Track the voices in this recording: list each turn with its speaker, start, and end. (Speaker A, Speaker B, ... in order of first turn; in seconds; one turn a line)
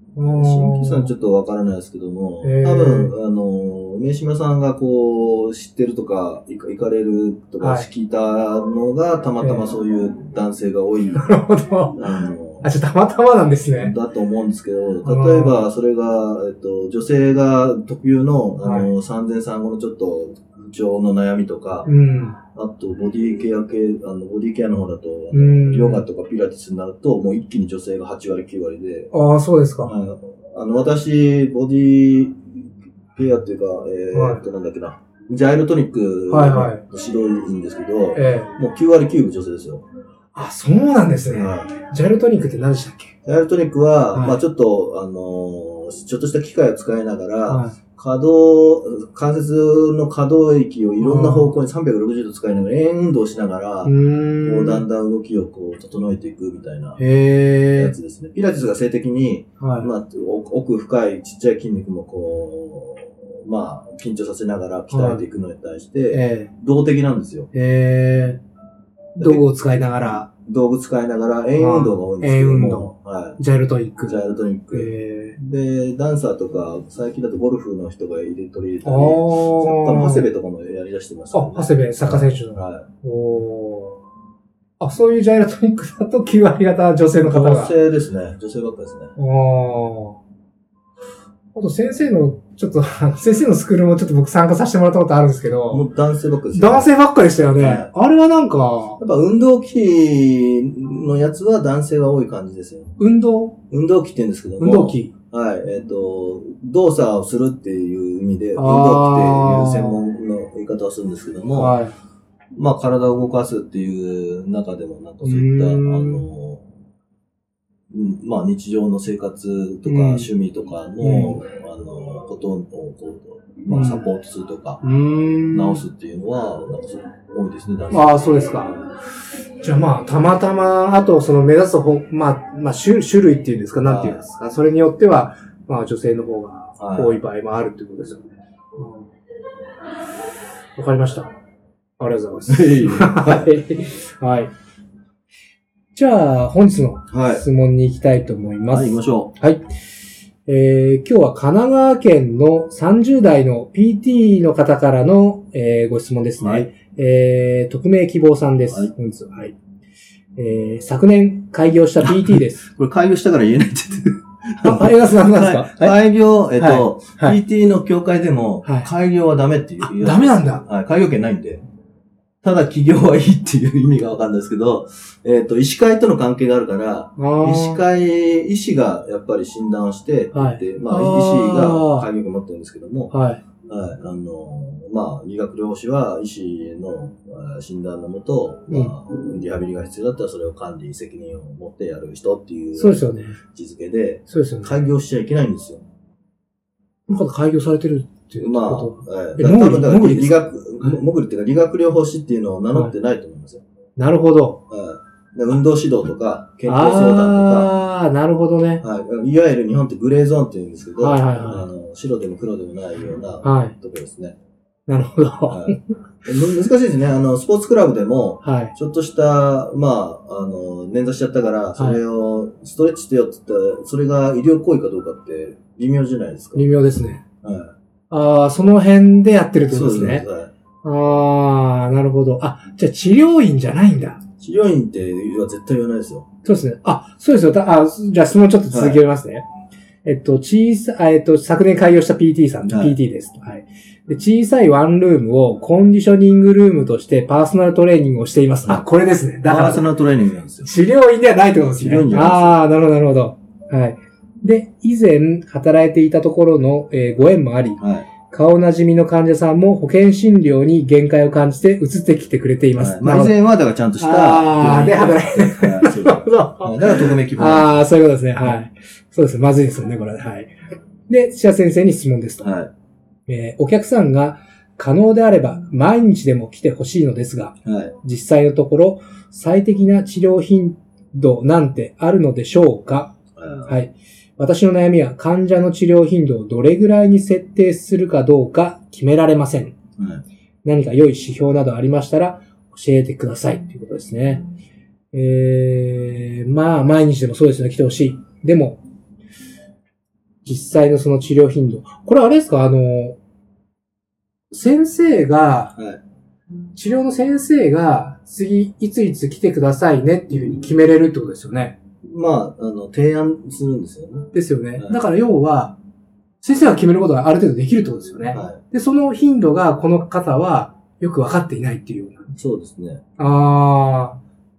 Speaker A: 0.2-1.1
Speaker B: 0.3-11.3
Speaker A: 2.4-3.1
Speaker A: 7.6-7.9
Speaker A: 9.4-9.7
Speaker A: 11.2-12.0
Speaker B: 11.9-12.7
Speaker A: 12.6-13.9
Speaker B: 13.7-21.9
Speaker A: 15.0-15.7
Speaker A: 18.6-18.9
Speaker A: 21.9-22.4
Speaker B: 22.5-29.1
Speaker A: 25.3-26.1
Speaker A: 29.1-29.9
Speaker B: 29.8-39.9
Speaker A: 34.1-34.4
Speaker A: 36.3-36.8
Speaker A: 38.1-38.5
Speaker A: 40.3-43.2
Speaker B: 41.3-41.7
Speaker B: 43.2-57.0
Speaker A: 44.1-44.4
Speaker A: 47.5-47.8
Speaker A: 51.0-51.6
Speaker A: 53.9-54.9
Speaker A: 57.0-58.0
Speaker B: 57.7-67.5
Speaker A: 59.6-59.9
Speaker A: 64.9-65.2
Speaker A: 66.1-66.5
Speaker A: 67.5-68.4
Speaker B: 69.2-69.5
Speaker A: 69.2-70.3
Speaker B: 70.5-73.4
Speaker A: 71.6-75.4
Speaker B: 74.0-82.9
Speaker A: 78.8-80.3
Speaker A: 81.3-84.0
Speaker A: 84.8-87.7
Speaker B: 87.2-89.1
Speaker A: 89.2-90.2
Speaker A: 91.5-95.9
Speaker B: 95.7-97.9
Speaker A: 96.5-99.0
Speaker B: 99.0-103.0
Speaker A: 103.0-103.6
Speaker B: 103.7-111.8
Speaker A: 104.6-105.1
Speaker A: 108.6-110.0
Speaker A: 111.6-112.0
Speaker B: 112.5-116.7
Speaker A: 115.2-116.3
Speaker B: 117.9-124.8
Speaker A: 119.8-120.3
Speaker A: 121.0-121.4
Speaker A: 123.7-124.0
Speaker A: 124.8-125.8
Speaker B: 125.5-128.8
Speaker A: 127.9-128.8
Speaker A: 129.6-139.1
Speaker B: 133.8-134.3
Speaker B: 136.8-137.2
Speaker A: 140.8-141.3
Speaker A: 142.0-144.5
Speaker B: 142.5-143.6
Speaker A: 145.9-149.6
Speaker B: 147.1-147.4
Speaker B: 148.7-149.3
Speaker A: 150.5-159.6
Speaker B: 156.4-156.7
Speaker B: 158.7-158.9
Speaker A: 160.4-162.7
Speaker B: 162.0-171.6
Speaker A: 164.6-166.0
Speaker A: 166.5-167.4
Speaker A: 168.6-168.9
Speaker A: 169.8-170.7
Speaker B: 172.4-183.1
Speaker A: 177.2-177.8
Speaker A: 180.3-182.1
Speaker A: 183.1-183.4
Speaker B: 183.7-195.8
Speaker A: 188.7-188.9
Speaker A: 192.8-193.4
Speaker A: 194.3-194.8
Speaker A: 197.1-201.0
Speaker B: 198.4-203.6
Speaker A: 204.0-204.6
Speaker B: 204.7-207.7
Speaker A: 206.7-208.8
Speaker B: 208.8-214.4
Speaker A: 211.0-211.7
Speaker A: 213.4-213.7
Speaker A: 214.9-215.8
Speaker B: 215.5-226.7
Speaker A: 218.4-218.8
Speaker A: 226.6-227.2
Speaker B: 227.4-227.8
Speaker A: 228.1-230.3
Speaker B: 229.7-230.5
Speaker A: 230.8-234.2
Speaker B: 234.4-236.3
Speaker A: 236.4-239.5
Speaker B: 238.7-239.0
Speaker A: 240.0-249.9
Speaker B: 242.7-243.0
Speaker B: 249.4-250.7
Speaker A: 250.6-263.4
Speaker B: 251.8-252.7
Speaker B: 257.8-258.1
Speaker B: 262.8-267.9
Speaker A: 264.0-270.5
Speaker A: 271.1-272.5
Speaker B: 272.4-272.7
Speaker A: 273.3-283.1
Speaker B: 277.6-277.9
Speaker B: 283.4-283.8
Speaker A: 283.7-289.8
Speaker B: 290.0-290.2
Speaker A: 290.6-294.4
Speaker A: 295.1-298.8
Speaker A: 300.4-303.2
Speaker A: 304.5-305.8
Speaker B: 305.8-306.0
Speaker A: 306.8-311.8
Speaker B: 312.0-315.0
Speaker A: 314.3-315.8
Speaker A: 316.4-322.3
Speaker B: 318.3-318.6
Speaker B: 322.4-323.0
Speaker A: 323.2-324.2